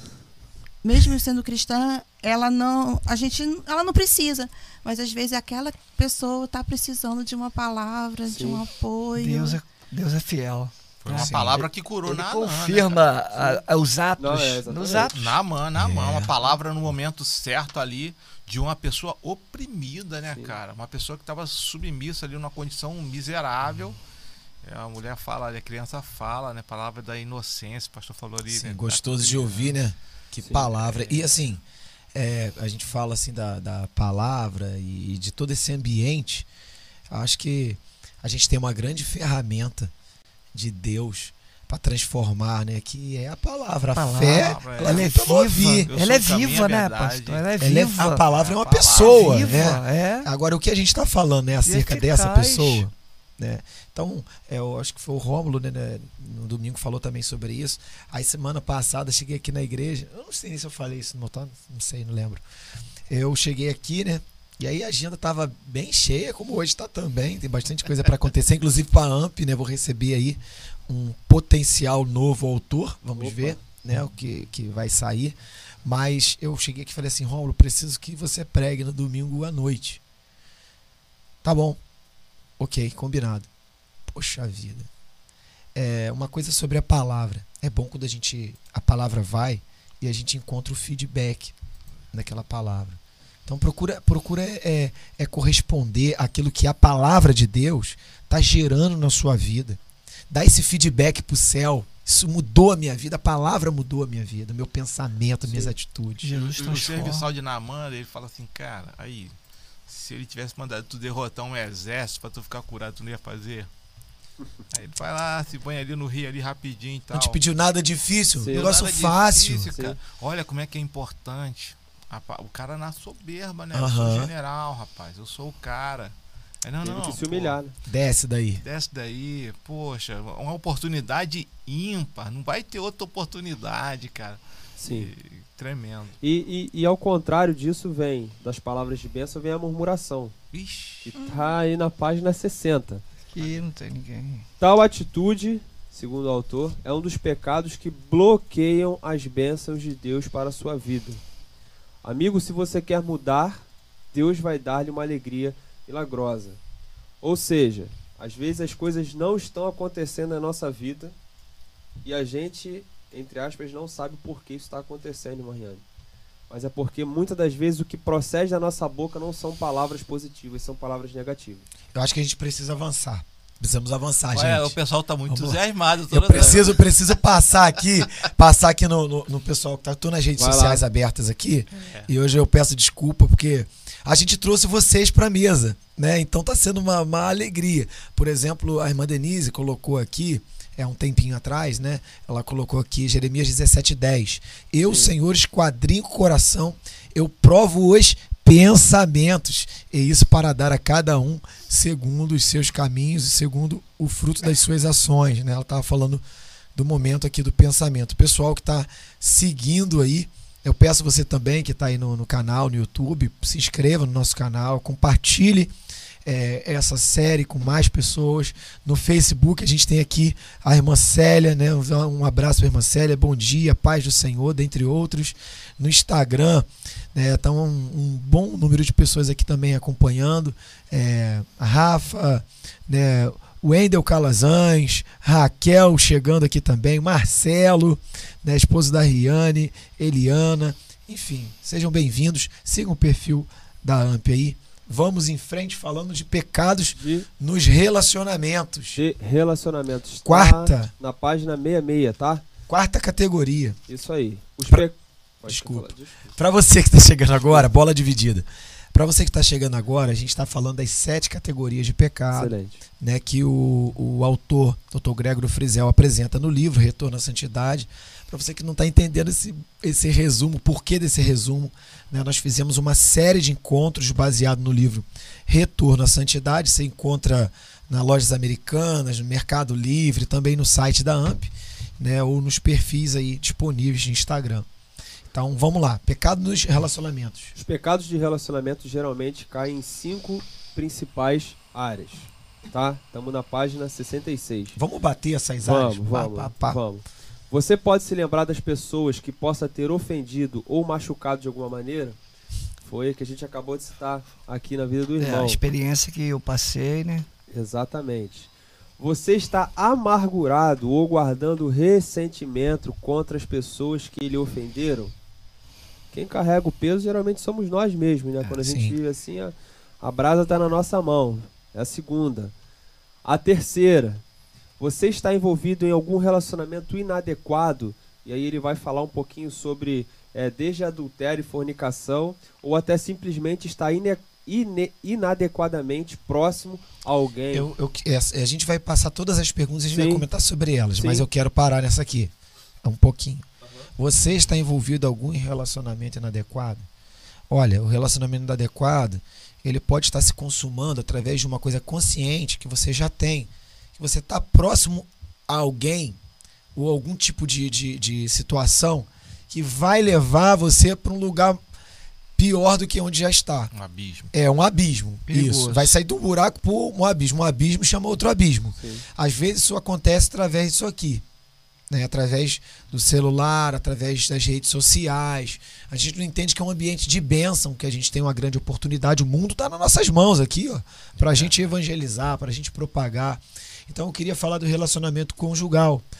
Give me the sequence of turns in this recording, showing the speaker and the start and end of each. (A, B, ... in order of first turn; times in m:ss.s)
0:00.8-0:09.6 A
0:08.3-0:08.6 B
0:09.2-0:15.4 C
0:11.0-0:13.2 D
0:11.1-0:11.6 E
0:13.3-0:13.6 B
0:14.2-0:15.1 B
0:15.0-0:24.0 D
0:15.7-0:16.4 E
0:20.3-0:20.6 B
0:24.6-0:29.8 D
0:28.5-0:31.6 E
0:30.6-0:31.4 D
0:32.1-0:36.5 E
0:37.1-0:39.9 E
0:40.5-0:45.9 E
0:43.9-0:48.2 C
0:44.3-0:45.2 D
0:45.9-0:47.4 D
0:47.6-1:02.4 E
0:48.2-0:49.7 D
0:49.0-0:50.3 C
0:51.6-0:52.8 C
1:03.1-1:20.0 E
1:13.2-1:13.6 B
1:21.4-1:21.8 E
1:22.6-1:23.5 E
1:24.1-1:24.9 E
1:25.7-1:31.5 E
1:32.1-1:46.5 E
1:45.4-1:45.7 B
1:46.2-1:47.3 C
1:46.5-1:49.3 D
1:49.9-1:53.7 D
1:54.7-1:57.4 D
1:57.1-1:59.7 E
1:58.4-1:58.7 B
1:58.5-2:07.6 D
2:03.7-2:04.3 E
2:06.8-2:07.7 B
2:07.8-2:08.6 E
2:08.6-2:16.2 D
2:14.8-2:15.1 B
2:16.2-2:20.3 B
2:20.5-2:21.1 D
2:21.0-2:23.0 B
2:21.1-2:21.5 A
2:23.3-2:24.4 C
2:24.6-2:31.2 B
2:32.0-2:36.6 B
2:37.2-2:41.1 B
2:42.0-2:45.8 B
2:46.5-2:51.7 B
2:51.9-2:55.6 E
2:54.3-2:56.9 D
2:56.1-3:26.2 E
2:56.3-2:56.6 B
3:00.4-3:00.8 B
3:01.8-3:02.1 D
3:14.8-3:15.1 B
3:26.7-3:35.7 E
3:36.2-4:09.0 E
4:06.9-4:07.2 B
4:08.9-4:12.4 B
4:10.2-4:10.9 E
4:12.7-4:13.8 E
4:13.9-4:16.3 B
4:15.4-4:44.7 E
4:17.3-4:17.7 B
4:22.3-4:22.8 B
4:45.3-4:47.5 E
4:47.5-4:54.8 B
4:54.7-4:56.8 E
4:55.6-5:02.2 B
5:02.8-5:05.6 B
5:05.2-5:07.3 C
5:07.5-5:15.1 B
5:16.1-5:22.5 B
5:18.4-5:19.0 E
5:23.2-5:24.2 B
5:24.8-5:37.7 B
5:37.5-5:46.9 E
5:39.9-5:40.2 B
5:41.0-5:41.2 B
5:43.6-5:43.9 B
5:47.5-5:56.2 E
5:56.7-6:01.6 E
6:02.4-6:03.7 E
6:03.7-6:04.3 D
6:04.3-6:11.2 E
6:05.3-6:05.9 C
6:08.8-6:09.0 B
6:11.9-6:26.0 E
6:21.2-6:21.7 D